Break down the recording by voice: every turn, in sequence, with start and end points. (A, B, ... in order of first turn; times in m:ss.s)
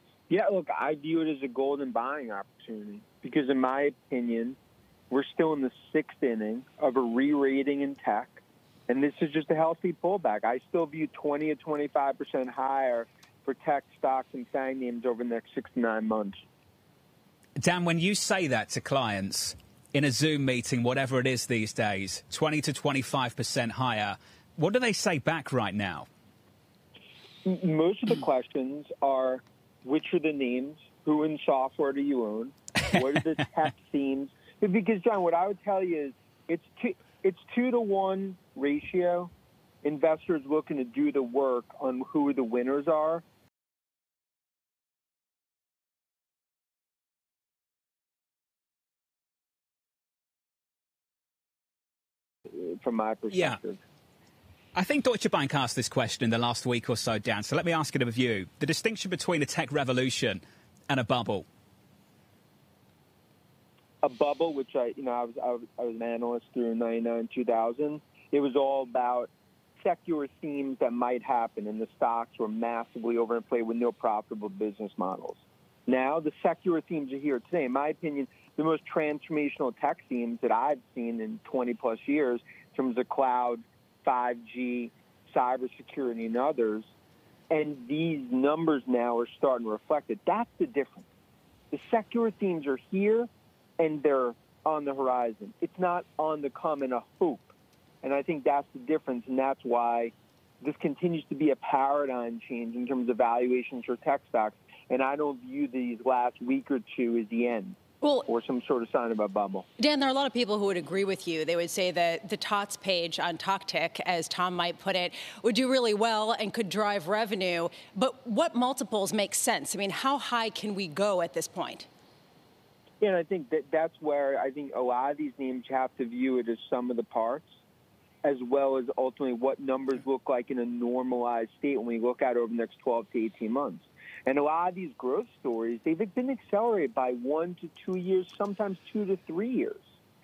0:00.3-0:04.6 A
0:05.1-0:16.4 A
0:17.6-0:26.1 B
0:27.4-0:39.3 A
0:39.8-0:43.2 A
0:52.5-0:53.8 A
0:53.3-0:53.6 B
0:54.8-1:01.4 B
1:04.0-1:26.9 A
1:27.5-1:31.1 A
1:31.7-1:49.7 A
1:48.0-1:48.3 C
1:49.8-2:01.9 C
2:03.0-2:07.5 A
2:08.2-2:19.8 A